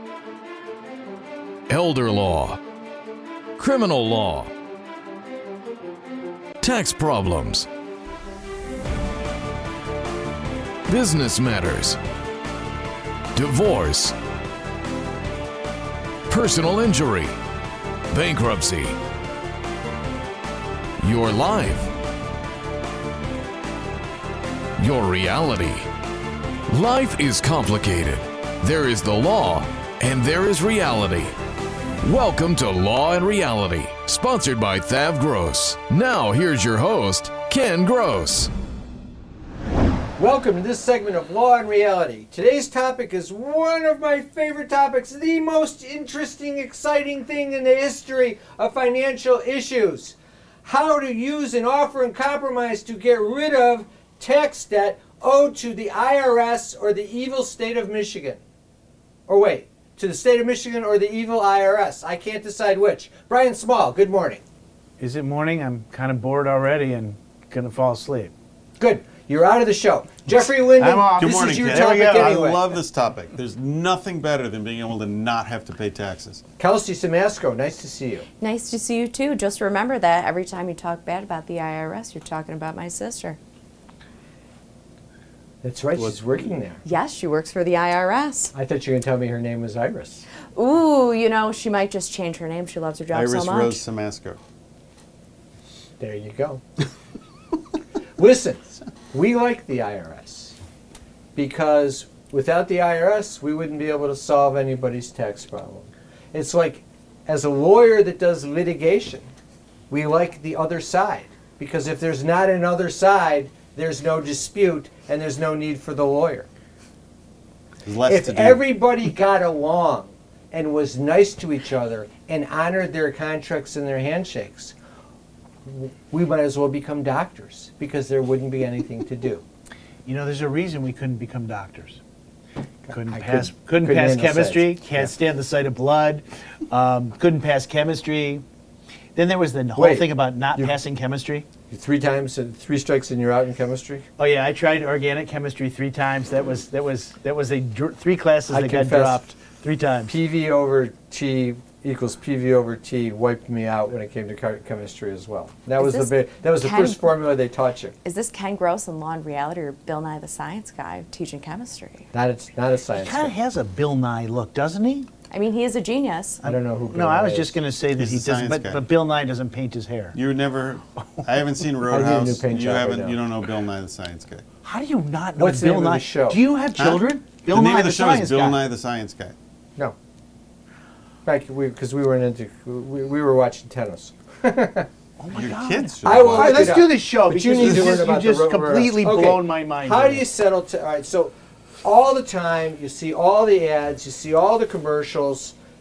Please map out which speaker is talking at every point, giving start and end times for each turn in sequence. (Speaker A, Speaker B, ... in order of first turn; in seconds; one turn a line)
Speaker A: 1.7-2.6
Speaker A: 3.6-4.5
Speaker A: 6.6-7.7
Speaker A: 10.9-12.0
Speaker A: 13.3-14.2
Speaker A: 16.3-17.3
Speaker A: 18.1-19.0
Speaker A: 21.0-21.9
Speaker A: 24.8-25.9
Speaker A: 26.7-31.3
Speaker A: 32.0-38.5
Speaker B: 40.2-58.4
Speaker B: 59.3-64.4
Speaker C: 65.0-68.3
Speaker B: 68.8-72.7
Speaker C: 70.8-72.4
Speaker D: 71.2-76.4
Speaker B: 76.6-78.3
Speaker E: 78.4-83.4
Speaker B: 85.6-86.8
Speaker E: 86.8-88.5
Speaker B: 88.5-90.2
Speaker E: 90.5-93.8
Speaker D: 93.1-94.4
Speaker B: 96.0-96.6
Speaker B: 98.2-100.6
Speaker B: 101.3-109.3
Speaker B: 109.9-116.5
Speaker D: 117.8-118.6
Speaker B: 118.0-124.7
Speaker B: 125.6-129.4
Speaker C: 130.0-132.0
Speaker B: 132.9-135.1
Speaker C: 132.9-138.4
Speaker C: 139.1-141.4
Speaker B: 139.8-140.7
Speaker B: 141.7-144.1
Speaker C: 144.2-150.2
Speaker B: 148.5-149.3
Speaker B: 150.1-157.9
Speaker E: 155.8-157.1
Speaker E: 158.0-162.1
Speaker B: 162.1-163.3
Speaker C: 162.9-165.1
Speaker E: 165.3-166.4
Speaker B: 166.4-167.6
Speaker C: 166.4-170.2
Speaker D: 167.9-168.9
Speaker D: 170.1-174.4
Speaker B: 171.9-173.2
Speaker C: 174.6-178.6
Speaker B: 175.4-176.4
Speaker D: 176.8-179.3
Speaker B: 181.2-184.9
Speaker C: 185.2-190.2
Speaker D: 185.3-186.9
Speaker B: 186.0-195.5
Speaker D: 187.6-188.0